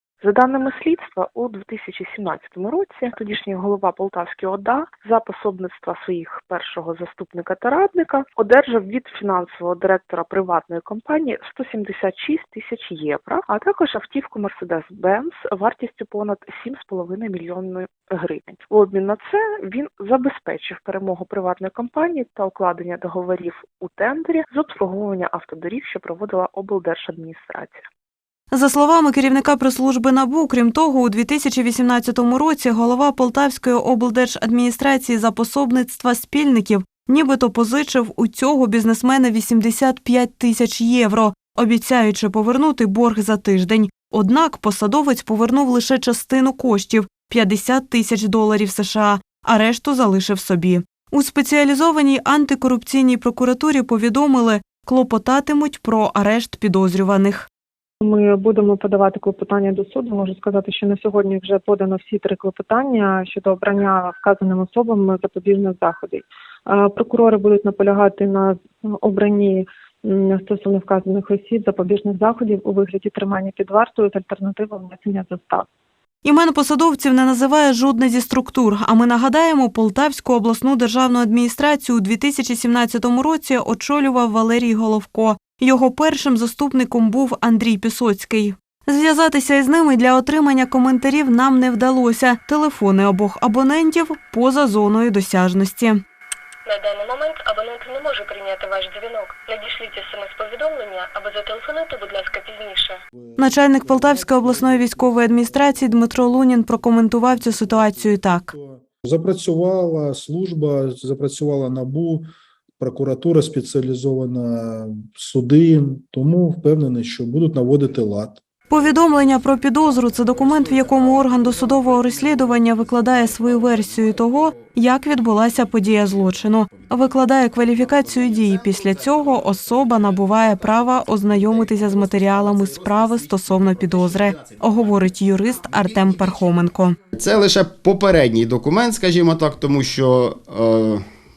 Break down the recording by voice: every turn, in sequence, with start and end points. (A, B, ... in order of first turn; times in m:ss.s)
0:00.2-0:27.8 A
0:28.5-0:57.5 B
0:58.0-1:15.7 C
1:16.2-1:36.0 B
1:36.7-1:43.0 D
1:43.1-1:46.0 E
1:43.4-1:48.5 B
1:46.8-1:58.4 E
1:58.7-2:17.0 B
1:58.7-2:21.0 F